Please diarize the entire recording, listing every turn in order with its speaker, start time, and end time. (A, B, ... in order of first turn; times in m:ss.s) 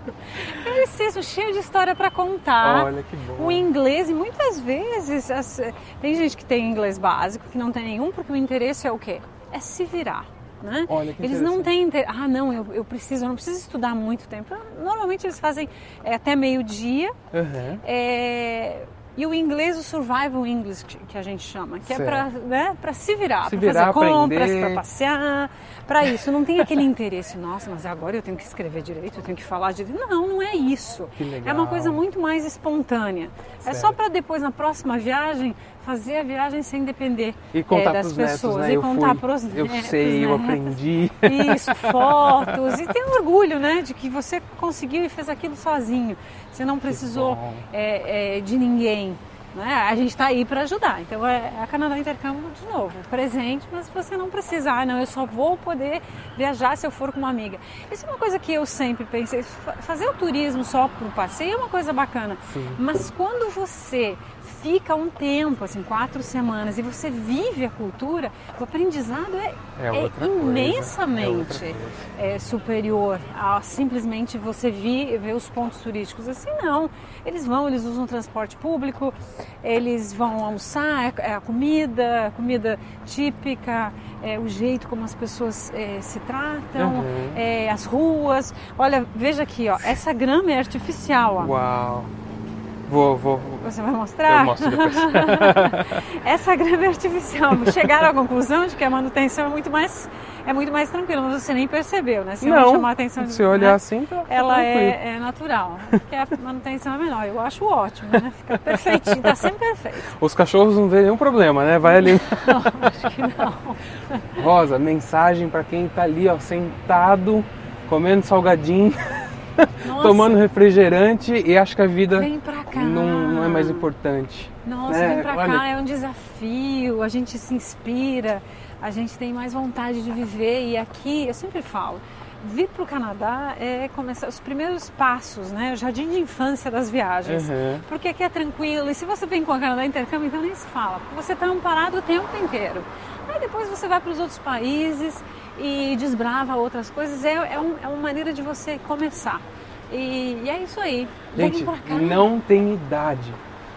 0:00.4-0:17.1 A
0:02.6-0:03.7 B
0:10.9-0:11.7 B
0:17.3-0:17.8 B
0:17.8-1:31.5 A
0:21.9-0:22.3 B
0:23.4-0:24.8 B
0:31.2-0:32.0 B
0:33.7-0:34.0 B
0:37.5-0:42.8 B
0:46.9-0:47.7 B
1:02.5-1:02.8 B
1:09.8-1:12.1 B
1:26.8-1:27.4 B
1:31.4-1:32.1 B
1:32.9-1:33.7 B
1:33.6-1:50.1 A
1:34.2-1:36.0 B
1:42.4-1:45.0 B
1:48.7-1:49.5 B
1:50.1-1:52.6 B
1:52.0-1:54.3 A
1:54.4-2:05.6 B
1:59.8-2:00.4 A
2:02.1-2:03.9 A
2:04.6-2:32.3 A
2:17.3-2:17.8 B
2:31.4-2:33.4 B